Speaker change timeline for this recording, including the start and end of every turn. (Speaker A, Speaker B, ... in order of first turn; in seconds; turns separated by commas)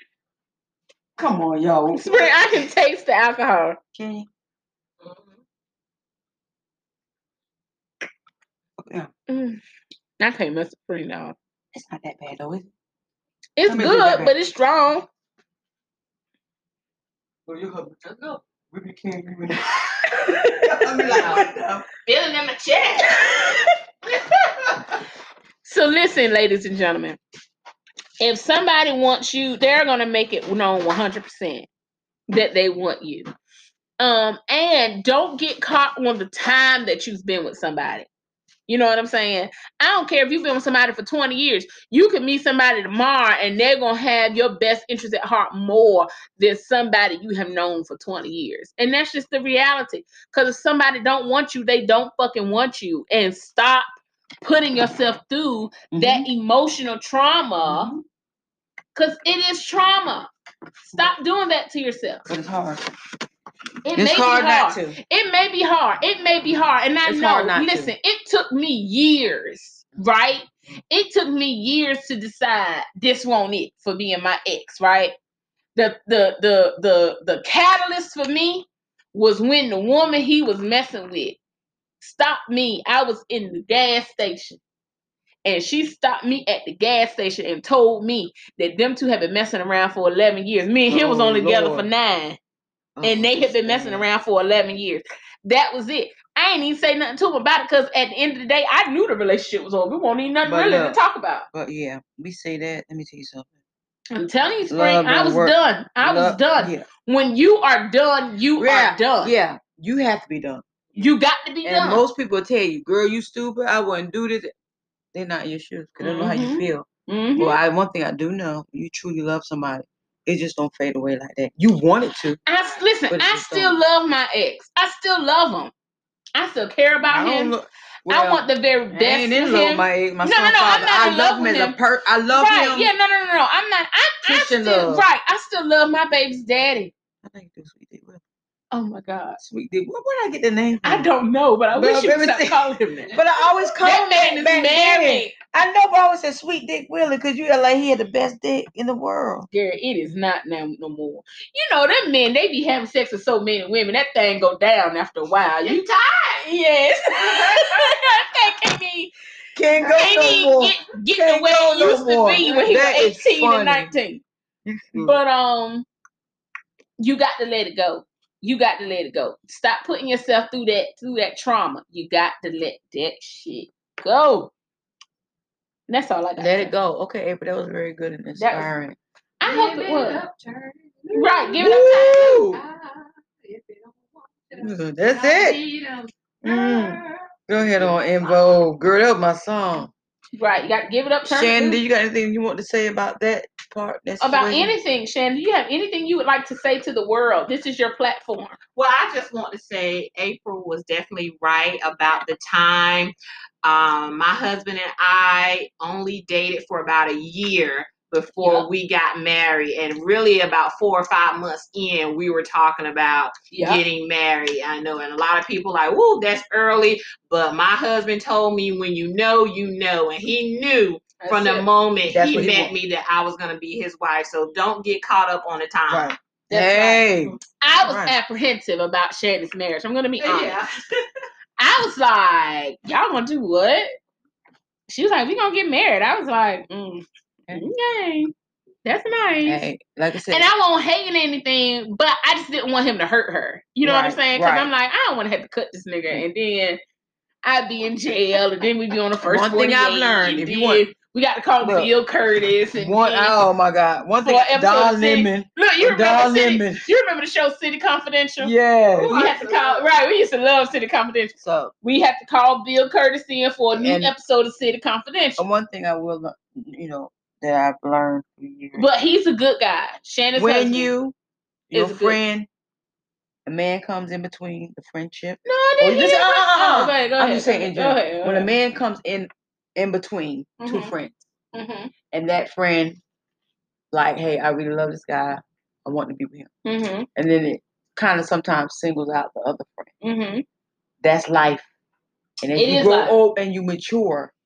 Speaker A: 1.2-2.4, Speaker B: 1.9-3.8, Speaker A: 3.9-4.3, Speaker C: 5.0-5.4, Speaker A: 8.8-9.1, Speaker B: 9.3-9.6, Speaker B: 10.2-11.3, Speaker A: 11.7-12.7, Speaker B: 13.6-15.1, Speaker A: 13.6-14.3, Speaker A: 17.4-21.8, Speaker C: 18.1-18.4, Speaker B: 20.2-21.0, Speaker C: 21.0-21.5, Speaker C: 22.1-23.1, Speaker B: 23.0-23.6, Speaker C: 24.2-24.8, Speaker B: 25.6-27.2, Speaker B: 28.2-31.7, Speaker B: 32.3-33.3, Speaker B: 34.0-38.1, Speaker B: 38.7-53.9, Speaker B: 54.4-57.9, Speaker A: 55.9-56.3, Speaker A: 57.6-58.0, Speaker B: 58.9-60.3, Speaker B: 60.9-62.3, Speaker A: 62.3-62.8, Speaker B: 63.8-75.1, Speaker A: 63.9-65.0, Speaker A: 67.0-67.9, Speaker B: 75.7-81.4, Speaker B: 82.0-84.6, Speaker B: 85.4-92.4, Speaker A: 90.9-91.9, Speaker A: 93.0-94.0, Speaker B: 93.0-101.5, Speaker A: 100.4-101.0, Speaker A: 101.5-103.5, Speaker B: 104.1-109.3, Speaker A: 104.7-106.9, Speaker A: 108.6-110.6, Speaker B: 110.9-112.0, Speaker A: 111.6-114.5, Speaker A: 115.1-122.4, Speaker B: 116.0-117.6, Speaker B: 122.5-125.7, Speaker A: 123.1-123.8, Speaker B: 126.3-127.5, Speaker A: 127.1-132.9, Speaker B: 128.1-131.8, Speaker B: 132.3-136.9, Speaker A: 134.2-135.1, Speaker A: 137.2-138.2, Speaker B: 138.7-139.4, Speaker A: 139.4-141.1, Speaker B: 140.8-143.2, Speaker A: 141.7-149.5, Speaker B: 143.8-145.3, Speaker B: 149.5-155.8, Speaker C: 155.6-156.4, Speaker B: 156.4-159.1, Speaker C: 157.2-157.9, Speaker A: 159.5-163.9, Speaker B: 159.9-164.2, Speaker C: 162.4-163.1, Speaker A: 164.6-165.2, Speaker B: 164.9-165.8, Speaker B: 167.0-174.5, Speaker B: 175.9-176.7, Speaker A: 176.4-179.0, Speaker B: 178.4-178.7, Speaker B: 179.4-180.2, Speaker C: 179.4-188.5, Speaker B: 181.1-182.3, Speaker A: 181.6-182.6, Speaker A: 184.6-185.6, Speaker A: 186.4-187.0, Speaker A: 187.5-189.9, Speaker B: 190.4-191.8, Speaker A: 191.2-194.7, Speaker B: 194.2-198.6, Speaker C: 198.8-226.1, Speaker B: 208.4-208.7, Speaker B: 213.5-213.8, Speaker B: 221.2-221.7, Speaker A: 222.1-222.7, Speaker A: 225.9-228.2, Speaker B: 226.5-227.1, Speaker B: 227.6-230.5, Speaker C: 230.2-230.8, Speaker B: 231.6-233.9, Speaker B: 234.9-238.3, Speaker B: 238.8-239.7, Speaker A: 239.4-240.5, Speaker B: 240.3-246.8, Speaker A: 243.8-244.7, Speaker B: 247.4-253.3, Speaker A: 249.2-250.8, Speaker A: 251.6-251.9, Speaker A: 252.8-256.8, Speaker B: 254.2-265.4, Speaker A: 258.4-259.1, Speaker C: 259.0-259.9, Speaker A: 261.4-261.7, Speaker A: 263.7-264.1, Speaker A: 265.4-268.9, Speaker B: 268.8-270.9, Speaker A: 270.4-271.1, Speaker A: 271.7-272.5, Speaker B: 271.7-272.2, Speaker A: 273.4-281.2, Speaker B: 275.4-278.5, Speaker B: 280.6-280.9, Speaker B: 281.5-281.9, Speaker A: 282.1-283.0, Speaker A: 283.9-286.5, Speaker B: 286.6-287.1, Speaker A: 287.1-289.9, Speaker B: 290.0-290.4, Speaker A: 291.0-291.6, Speaker A: 292.4-294.3, Speaker B: 292.5-293.1